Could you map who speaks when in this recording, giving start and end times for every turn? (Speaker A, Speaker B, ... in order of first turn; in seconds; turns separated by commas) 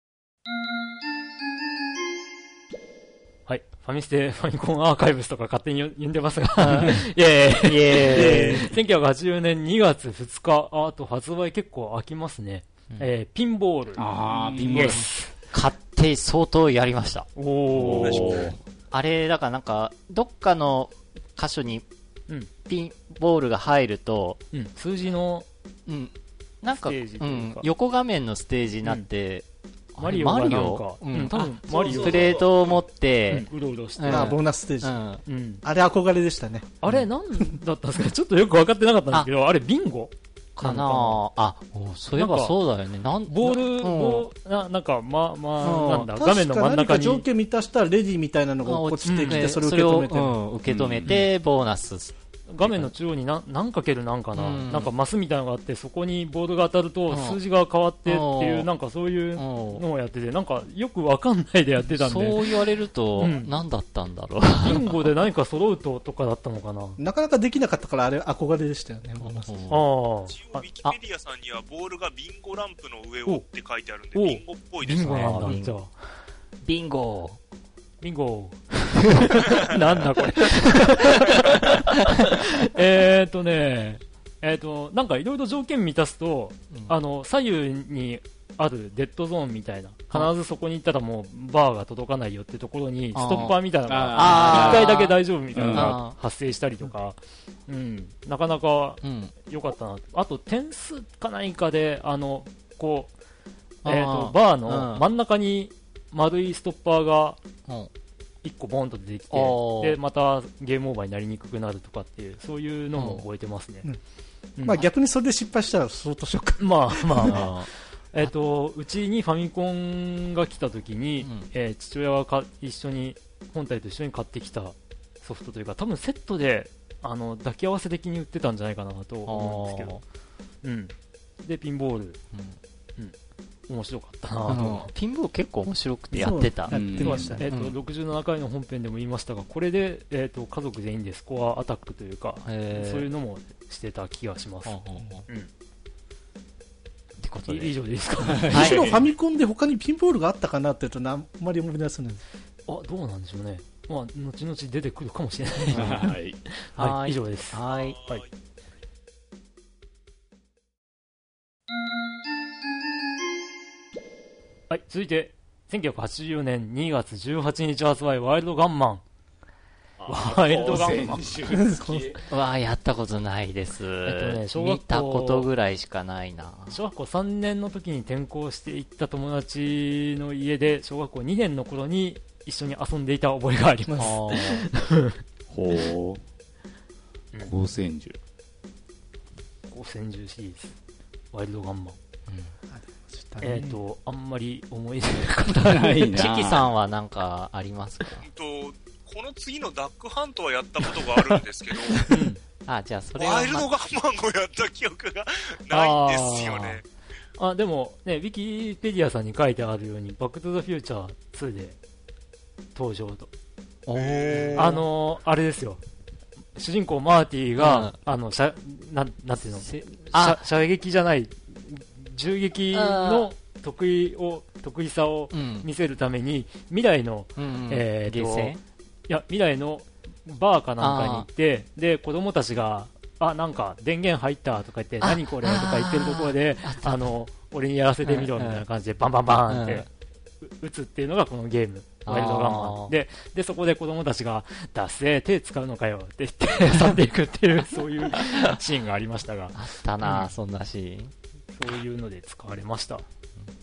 Speaker A: 3.5-15.3, Speaker B: 6.6-8.7, Speaker C: 14.0-15.0, Speaker B: 14.6-17.3, Speaker A: 17.4-18.4, Speaker C: 17.7-18.6, Speaker D: 18.0-18.5, Speaker B: 18.1-21.9, Speaker B: 22.7-24.4, Speaker A: 24.5-25.5, Speaker B: 25.9-35.2, Speaker A: 26.7-27.7, Speaker A: 30.0-32.4, Speaker C: 31.7-32.8, Speaker A: 33.3-34.4, Speaker E: 34.1-35.0, Speaker A: 35.3-35.6, Speaker E: 35.6-36.7, Speaker A: 36.8-41.2, Speaker B: 40.6-44.3, Speaker A: 42.2-42.6, Speaker A: 43.3-47.3, Speaker B: 45.6-46.1, Speaker E: 46.1-50.4, Speaker B: 48.6-52.9, Speaker A: 49.0-49.5, Speaker C: 50.7-51.2, Speaker A: 52.5-62.6, Speaker B: 54.4-54.9, Speaker B: 57.1-57.4, Speaker B: 58.1-58.7, Speaker B: 59.4-59.9, Speaker B: 61.8-65.1, Speaker A: 63.2-63.6, Speaker A: 64.6-67.0, Speaker E: 67.0-69.7, Speaker B: 69.2-69.8, Speaker A: 69.7-70.7, Speaker D: 70.3-75.5, Speaker A: 74.1-75.9, Speaker B: 75.0-75.8, Speaker B: 76.6-77.4, Speaker A: 78.0-103.1, Speaker B: 79.2-81.8, Speaker B: 93.1-93.6, Speaker C: 93.9-95.0, Speaker B: 94.1-95.2, Speaker C: 95.5-96.0, Speaker B: 95.7-96.2, Speaker B: 99.0-99.3, Speaker B: 103.8-105.1, Speaker A: 103.8-107.4, Speaker A: 108.4-113.9, Speaker B: 109.3-110.0, Speaker B: 113.0-113.2, Speaker A: 114.6-114.8, Speaker E: 114.6-117.4, Speaker A: 116.6-130.0, Speaker B: 117.2-117.7, Speaker B: 121.2-121.5, Speaker B: 129.3-130.0, Speaker A: 130.6-132.2, Speaker B: 132.3-132.6, Speaker A: 133.7-134.9, Speaker B: 134.5-137.8, Speaker E: 136.1-137.4, Speaker C: 136.7-137.4, Speaker A: 137.0-145.5, Speaker B: 142.4-143.1, Speaker B: 144.7-145.2, Speaker B: 147.2-147.8, Speaker A: 147.5-148.8, Speaker C: 148.2-149.1, Speaker B: 148.5-148.9, Speaker E: 148.5-152.2, Speaker A: 152.7-158.2, Speaker C: 155.7-156.4, Speaker B: 155.7-156.0, Speaker B: 156.8-158.0, Speaker D: 157.7-158.3, Speaker A: 164.7-169.0, Speaker C: 170.0-172.2, Speaker A: 170.1-171.2, Speaker E: 171.5-172.1, Speaker B: 172.3-176.8, Speaker A: 174.1-175.5, Speaker A: 176.7-185.2, Speaker B: 184.0-184.7, Speaker C: 185.5-186.2, Speaker C: 187.4-188.2, Speaker A: 189.7-190.8, Speaker A: 191.3-192.0, Speaker B: 192.3-192.5, Speaker E: 192.7-193.8, Speaker A: 193.4-196.1, Speaker C: 195.6-196.7, Speaker B: 196.0-198.3, Speaker D: 198.2-202.2, Speaker A: 202.1-202.4, Speaker B: 202.7-203.7, Speaker D: 203.2-206.8, Speaker A: 205.7-206.8, Speaker A: 207.4-211.8, Speaker A: 212.8-213.3, Speaker B: 213.9-214.8, Speaker D: 213.9-214.8, Speaker A: 214.6-215.8, Speaker A: 216.6-228.6, Speaker B: 217.6-217.9, Speaker B: 219.6-220.4, Speaker B: 222.7-223.3, Speaker B: 225.3-225.7, Speaker B: 227.4-228.6, Speaker A: 229.1-239.9, Speaker B: 230.8-231.3, Speaker B: 235.0-237.1, Speaker B: 238.0-238.6, Speaker B: 239.3-239.9, Speaker A: 240.4-250.3, Speaker B: 242.1-242.9, Speaker B: 249.5-251.1, Speaker A: 251.5-253.1